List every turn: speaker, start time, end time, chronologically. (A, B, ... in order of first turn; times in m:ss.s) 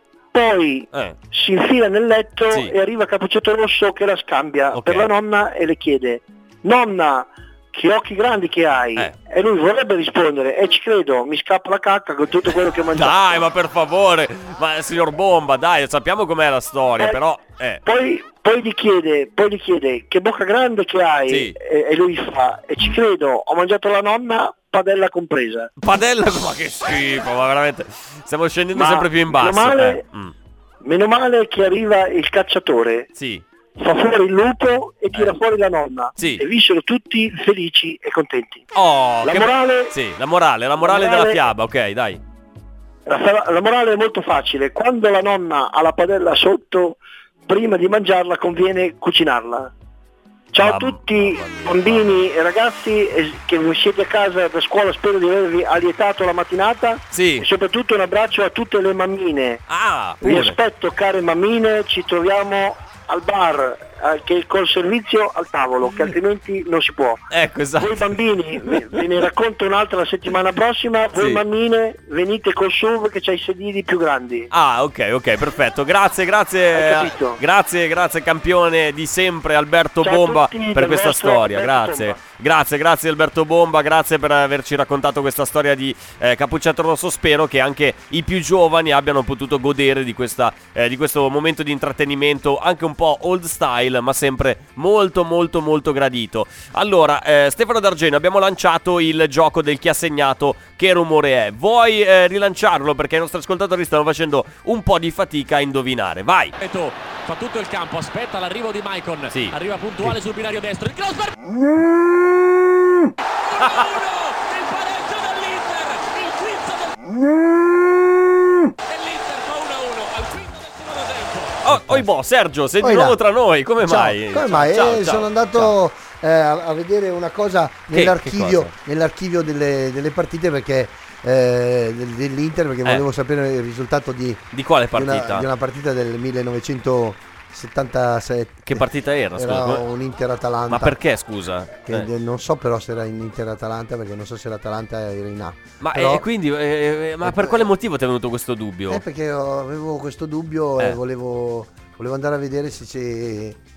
0:00.3-0:13.2 A
0:04.7-0:05.1 B
0:12.9-0:17.8 B
0:17.8-0:25.7 A
0:21.3-0:21.5 B
0:25.8-0:30.3 B
0:28.7-0:30.0 A
0:30.8-0:33.1 A
0:33.1-0:33.4 B
0:33.8-0:38.6 A
0:36.2-0:36.4 B
0:38.7-0:42.2 B
0:39.2-0:39.9 A
0:40.8-0:41.4 A
0:43.1-0:49.7 A
0:50.5-0:59.6 A
0:50.6-0:52.2 B
0:57.1-0:57.4 B
0:59.7-1:00.6 B
1:00.2-1:07.2 A
1:07.3-1:09.0 B
1:07.8-1:14.5 A
1:11.2-1:11.4 B
1:14.5-1:46.5 B
1:16.7-1:17.4 A
1:20.0-1:22.2 A
1:46.6-1:51.5 C
1:53.5-1:57.1 C
1:58.9-2:01.6 C
2:01.6-2:05.7 B
2:01.7-2:02.1 D
2:02.8-2:03.2 D
2:03.8-2:21.0 D
2:07.9-2:08.7 B
2:14.5-2:15.4 B
2:18.6-2:19.8 B
2:20.7-2:22.1 B
2:21.8-2:26.2 D
2:25.8-2:29.0 B
2:27.2-2:27.7 D
2:28.9-2:33.6 D